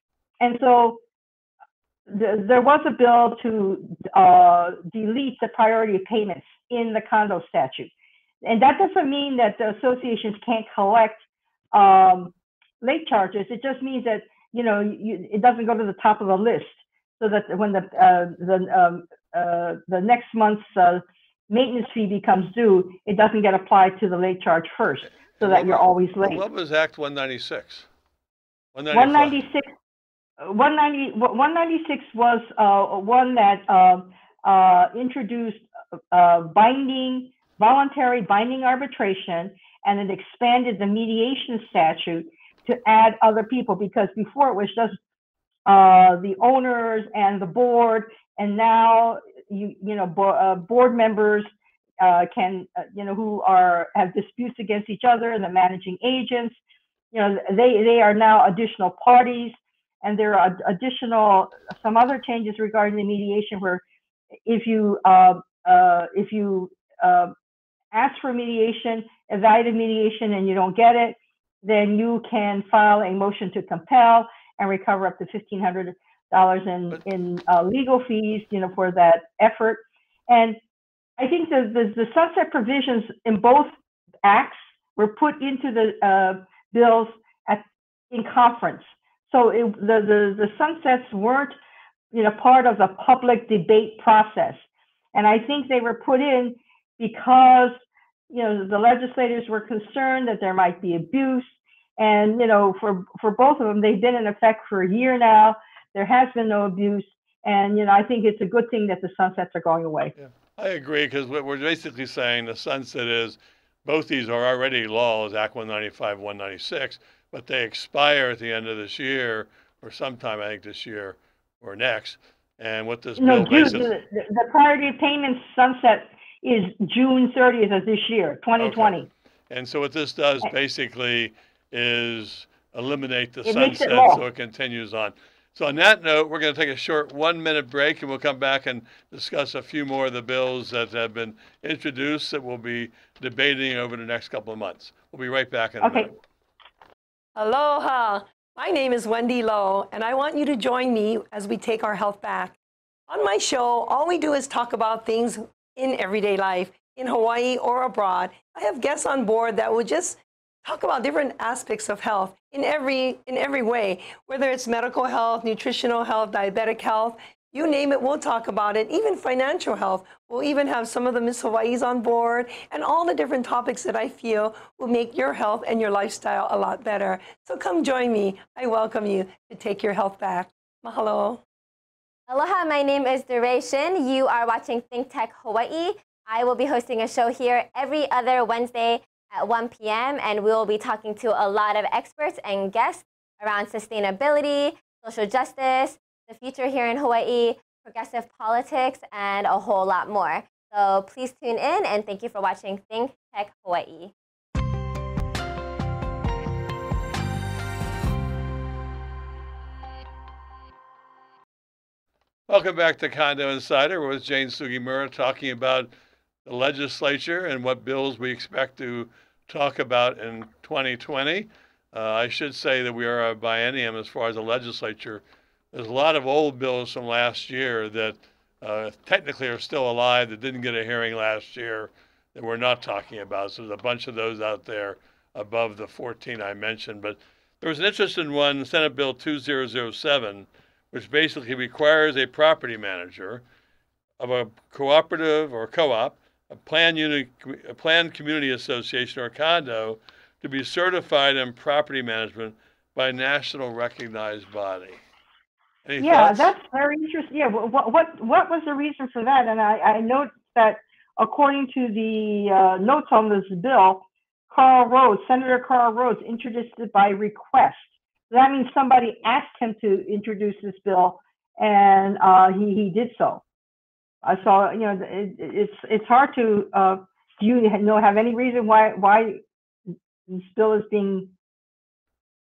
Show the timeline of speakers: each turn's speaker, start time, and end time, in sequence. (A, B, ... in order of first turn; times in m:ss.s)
0:00.4-0:01.0 A
0:02.1-0:07.9 A
0:08.4-0:26.4 A
0:25.4-0:27.9 B
0:28.7-0:29.4 B
0:28.9-0:29.7 A
0:30.4-0:45.0 A
0:45.7-0:56.6 A
0:57.1-1:03.8 A
1:04.5-1:07.3 A
1:07.9-1:20.6 A
1:21.2-1:23.7 A
1:24.2-1:31.6 A
1:32.1-1:50.1 A
1:50.2-2:03.9 B
2:03.2-2:09.1 A
2:08.6-2:08.9 B
2:09.5-2:26.1 B
2:13.4-2:14.2 A
2:25.8-2:26.1 A
2:27.4-2:32.6 C
2:33.1-3:01.4 C
3:02.3-3:24.1 D
3:32.5-3:35.9 B
3:36.4-4:03.4 B
4:04.2-4:15.0 B
4:15.8-4:16.5 B
4:16.0-4:33.4 A
4:34.2-4:39.4 A
4:40.3-4:41.3 A